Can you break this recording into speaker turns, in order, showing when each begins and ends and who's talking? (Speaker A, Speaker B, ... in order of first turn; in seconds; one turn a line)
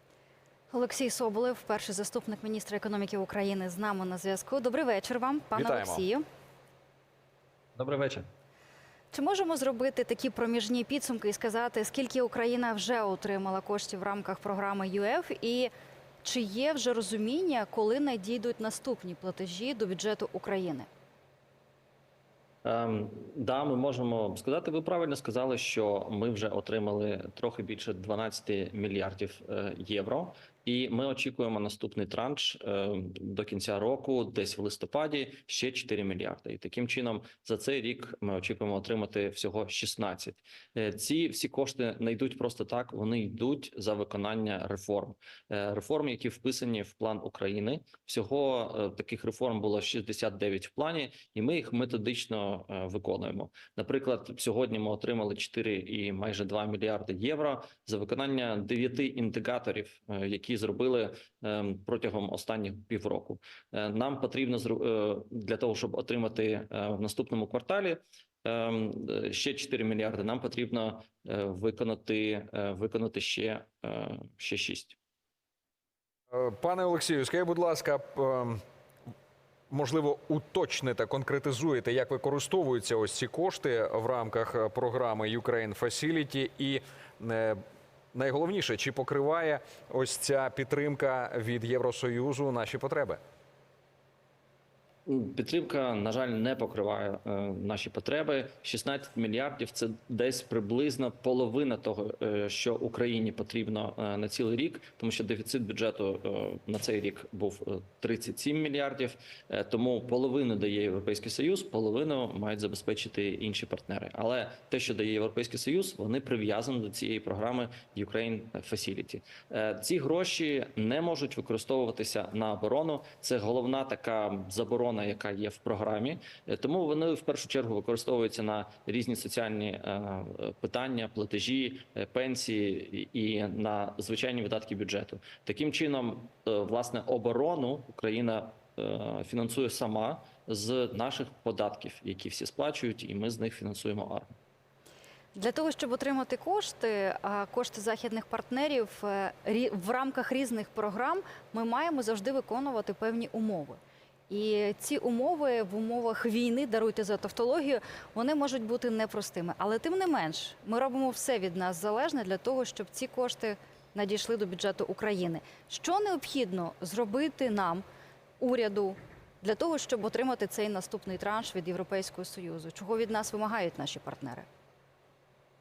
Speaker A: 0.7-6.2
Speaker B: 5.5-6.1
Speaker C: 7.8-8.3
Speaker A: 9.1-15.7
Speaker A: 16.2-20.9
Speaker C: 22.6-75.0
Speaker B: 76.3-78.6
Speaker B: 79.7-87.6
Speaker B: 88.1-93.2
Speaker C: 95.1-144.4
Speaker A: 145.3-167.8
Speaker A: 168.4-174.5